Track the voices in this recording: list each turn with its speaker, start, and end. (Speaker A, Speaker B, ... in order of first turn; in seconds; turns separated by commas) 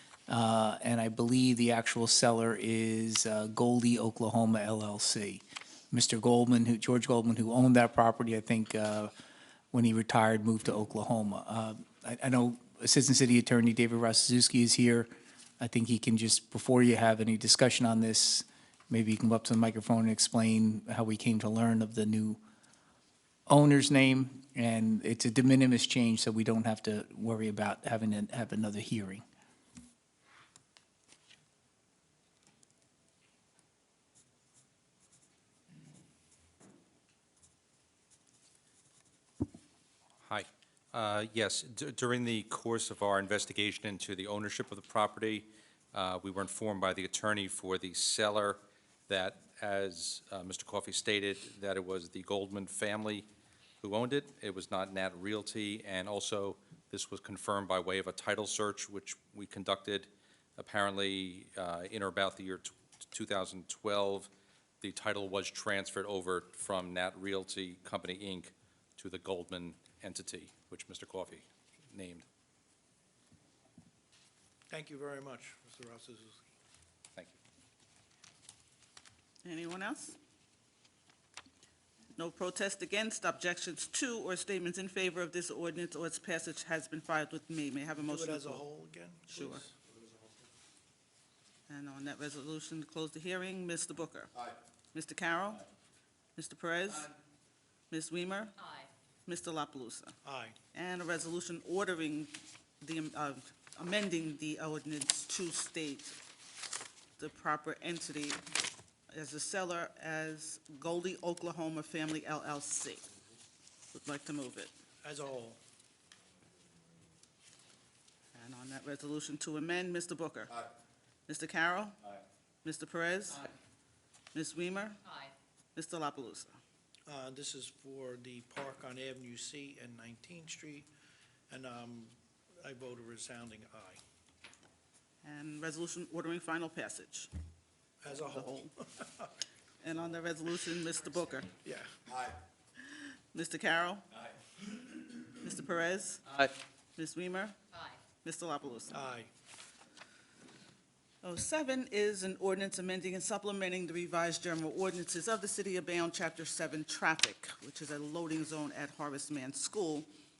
Speaker A: 0.3-9.1, Speaker A: 9.7-15.1, Speaker A: 15.6-22.4, Speaker A: 23.5-29.2, Speaker B: 40.2-53.3, Speaker B: 53.8-64.3, Speaker B: 64.8-72.2, Speaker C: 74.7-76.4, Speaker D: 79.4-80.2, Speaker D: 82.2-88.6, Speaker C: 88.0-89.7, Speaker D: 89.3-89.6, Speaker D: 91.7-94.3, Speaker D: 94.9-95.6, Speaker D: 96.4-97.1, Speaker D: 97.9-98.6, Speaker D: 99.2-100.2, Speaker C: 100.2-100.5, Speaker D: 100.7-106.2, Speaker D: 107.2-108.4, Speaker D: 109.1-113.0, Speaker D: 113.9-114.7, Speaker C: 115.0-115.6, Speaker D: 118.3-120.6, Speaker D: 121.3-122.0, Speaker D: 122.6-123.5, Speaker D: 124.3-125.0, Speaker D: 125.7-126.6, Speaker C: 127.1-130.9, Speaker C: 131.5-134.0, Speaker D: 135.2-137.3, Speaker C: 138.0-139.3, Speaker D: 138.1-138.7, Speaker D: 139.8-141.5, Speaker C: 141.6-142.1, Speaker D: 143.3-144.0, Speaker D: 145.2-147.6, Speaker D: 148.1-148.9, Speaker C: 148.9-149.3, Speaker D: 151.2-160.1